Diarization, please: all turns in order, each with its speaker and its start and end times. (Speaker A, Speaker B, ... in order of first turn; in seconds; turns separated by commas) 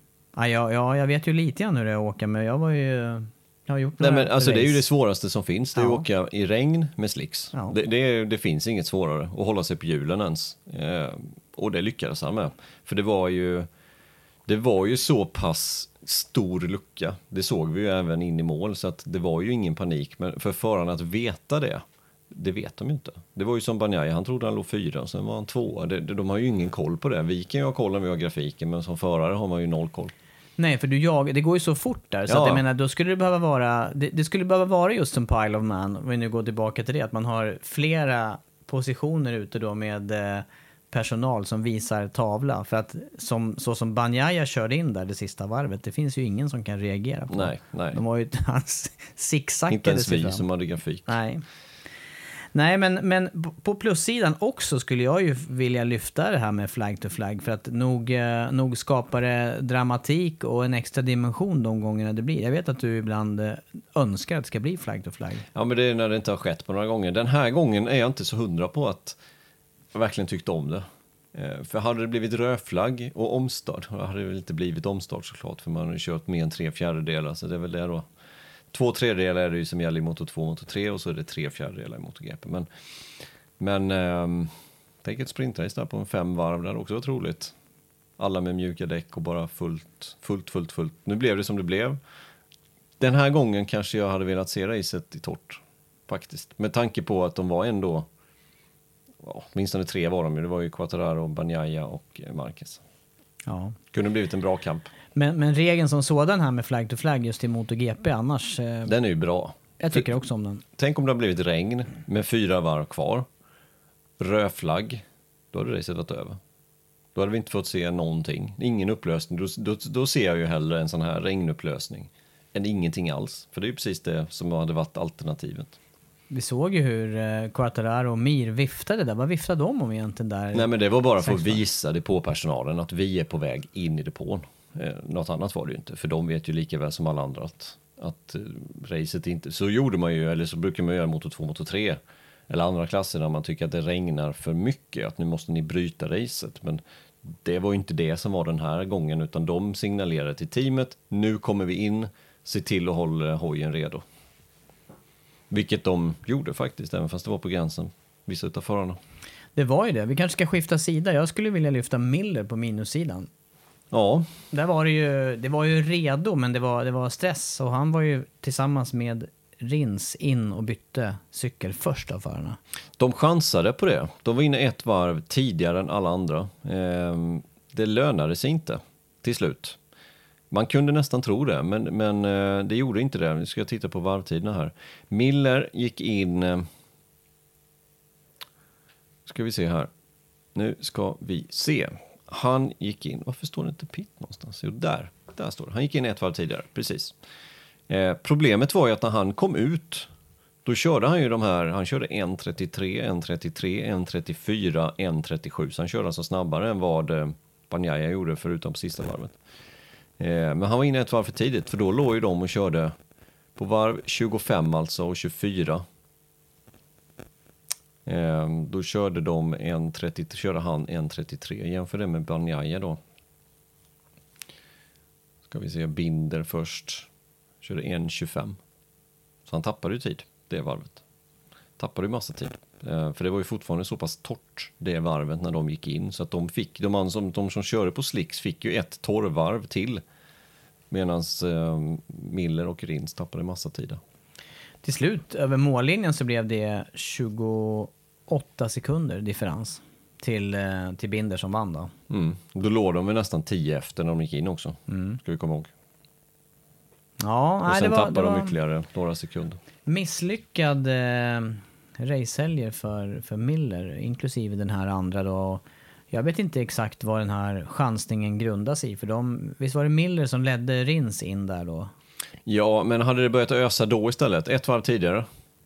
Speaker A: 0.3-4.8, Speaker B: 4.0-13.7, Speaker A: 5.8-6.0, Speaker B: 14.4-30.1, Speaker A: 30.6-50.5, Speaker B: 32.3-32.6, Speaker B: 47.3-48.0, Speaker B: 49.7-51.1, Speaker A: 51.0-51.4, Speaker A: 52.5-65.4, Speaker B: 65.5-69.2, Speaker B: 69.9-78.1, Speaker B: 78.7-82.7, Speaker B: 83.6-84.5, Speaker B: 85.0-87.5, Speaker B: 88.2-92.0, Speaker B: 93.0-98.1, Speaker B: 99.2-102.8, Speaker A: 103.5-103.8, Speaker B: 103.9-104.9, Speaker A: 105.1-108.9, Speaker B: 108.8-110.1, Speaker A: 109.8-110.6, Speaker B: 110.8-113.3, Speaker B: 114.2-116.4, Speaker B: 117.1-125.8, Speaker A: 126.3-130.7, Speaker B: 130.5-154.0, Speaker A: 131.2-131.6, Speaker B: 155.5-159.0, Speaker A: 159.5-163.3, Speaker B: 163.9-164.3, Speaker A: 164.5-172.6, Speaker B: 173.0-179.8, Speaker B: 180.5-186.7, Speaker B: 189.2-189.9, Speaker B: 190.5-197.1, Speaker B: 197.9-200.1, Speaker B: 200.6-209.3, Speaker B: 210.2-212.9, Speaker B: 213.6-215.8, Speaker B: 218.0-223.0, Speaker B: 225.5-227.1, Speaker B: 227.6-228.6, Speaker B: 229.4-231.0, Speaker B: 231.8-240.0, Speaker B: 240.9-244.0, Speaker A: 244.8-251.9, Speaker B: 252.1-255.7, Speaker A: 254.9-255.2, Speaker A: 257.2-258.5, Speaker B: 257.6-259.6, Speaker A: 259.9-271.9, Speaker B: 272.4-275.3